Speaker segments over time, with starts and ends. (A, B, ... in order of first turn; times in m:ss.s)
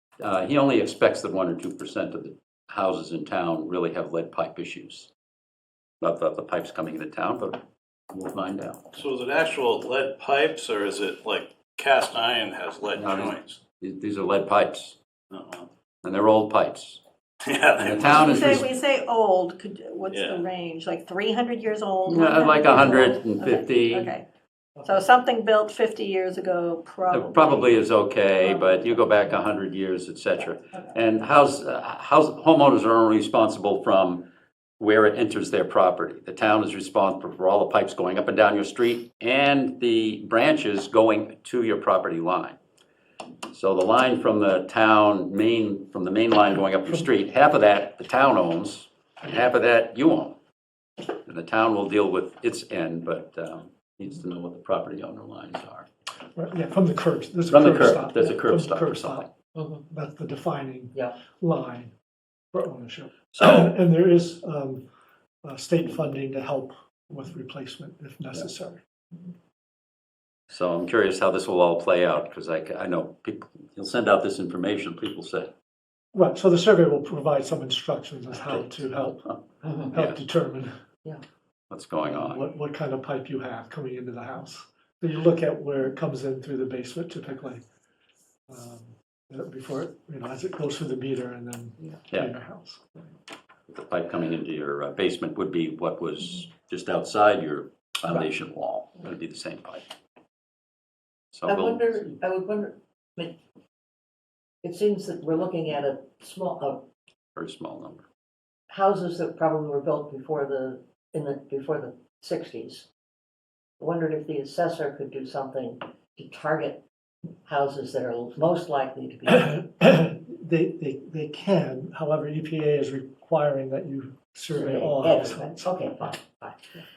0:00.2-0:05.1 A
0:06.0-0:07.6 A
0:08.1-0:09.0 A
0:09.1-0:13.6 B
0:13.0-0:15.0 A
0:15.3-0:15.7 B
0:16.0-0:17.0 A
0:17.5-0:17.9 B
0:17.8-0:18.7 A
0:18.0-0:24.2 C
0:20.1-0:20.5 B
0:22.1-0:24.1 A
0:24.8-0:28.9 C
0:27.1-0:34.3 A
0:34.8-0:42.6 A
0:43.5-0:50.4 A
0:51.3-0:55.9 A
0:56.4-0:59.3 D
0:57.5-0:59.3 A
0:59.6-0:59.8 E
0:59.8-1:01.9 D
1:02.5-1:04.8 D
1:03.4-1:03.7 A
1:05.4-1:08.8 D
1:10.5-1:15.5 A
1:16.1-1:19.3 D
1:19.6-1:19.9 E
1:19.9-1:20.7 D
1:19.9-1:20.2 A
1:21.7-1:22.4 A
1:22.1-1:27.6 D
1:28.5-1:33.0 D
1:33.7-1:39.8 A
1:41.3-1:42.1 A
1:41.5-1:43.4 E
1:44.6-1:46.8 E
1:47.4-1:48.0 A
1:48.7-1:52.9 E
1:53.8-1:56.8 E
1:57.4-1:59.5 E
1:59.3-2:05.7 D
2:04.5-2:06.6 E